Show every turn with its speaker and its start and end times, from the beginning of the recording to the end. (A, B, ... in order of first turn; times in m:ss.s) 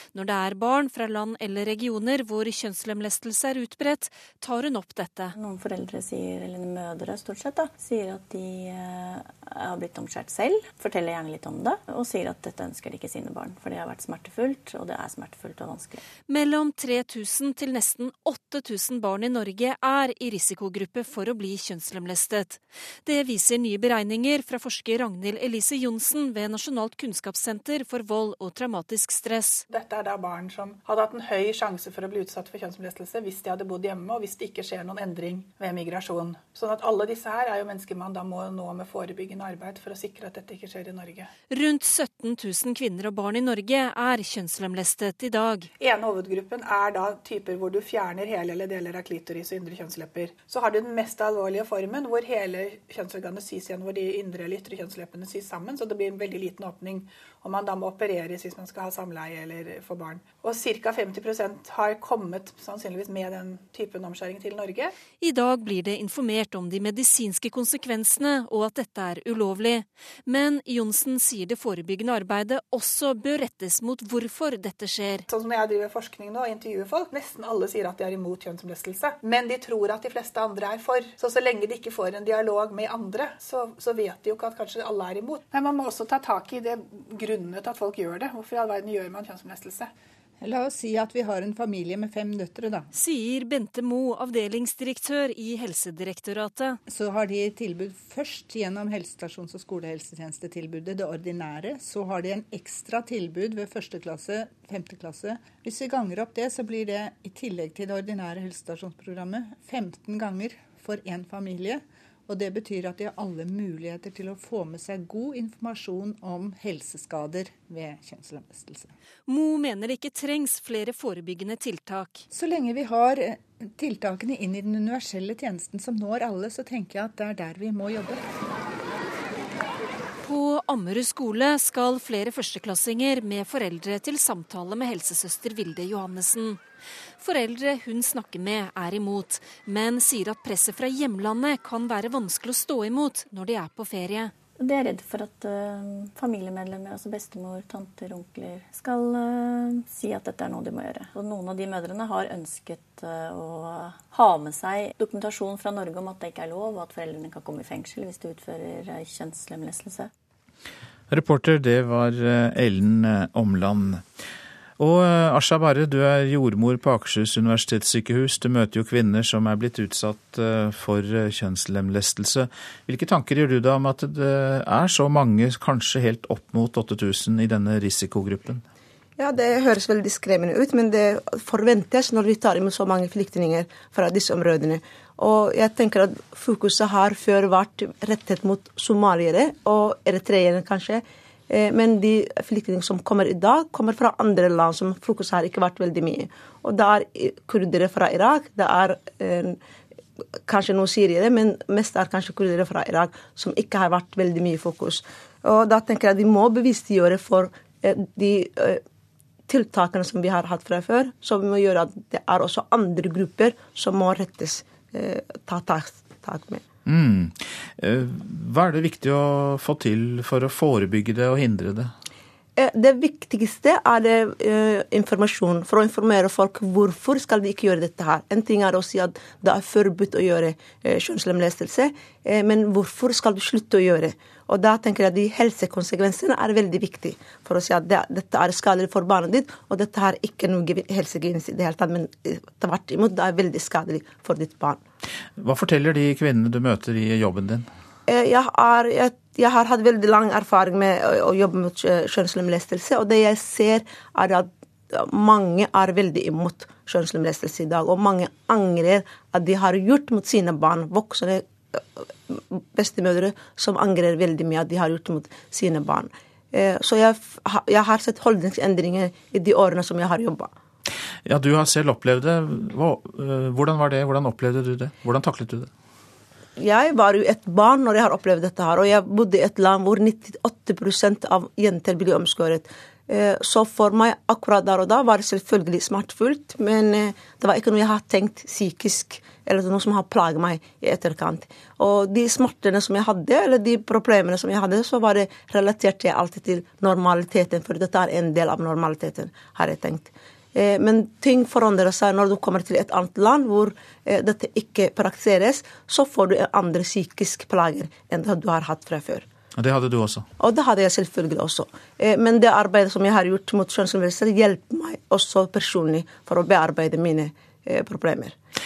0:00.1-0:05.3 A
0:05.3-0:16.0 B
0:16.3-0:29.6 A
0:29.7-0:41.3 C
0:41.5-0:45.7 A
0:45.8-1:04.9 C
1:05.2-1:15.2 A
1:15.3-1:29.9 C
1:30.4-1:32.9 D
1:32.9-1:36.8 A
1:36.9-1:58.9 D
1:59.3-2:02.2 A
2:02.3-2:08.2 D
2:10.2-2:16.6 A
2:17.2-2:24.3 A
2:24.6-2:40.1 B
2:41.1-2:44.0 E
2:44.8-2:58.6 E
2:59.2-3:19.6 F
3:20.5-3:28.8 F
3:29.5-3:36.6 F
3:36.8-3:41.9 E
3:42.6-4:04.8 F
4:05.4-4:07.7 E
4:08.1-4:30.5 F
4:31.2-4:35.7 E
4:36.6-5:09.2 F
5:09.6-5:10.3 E
5:10.4-5:18.3 F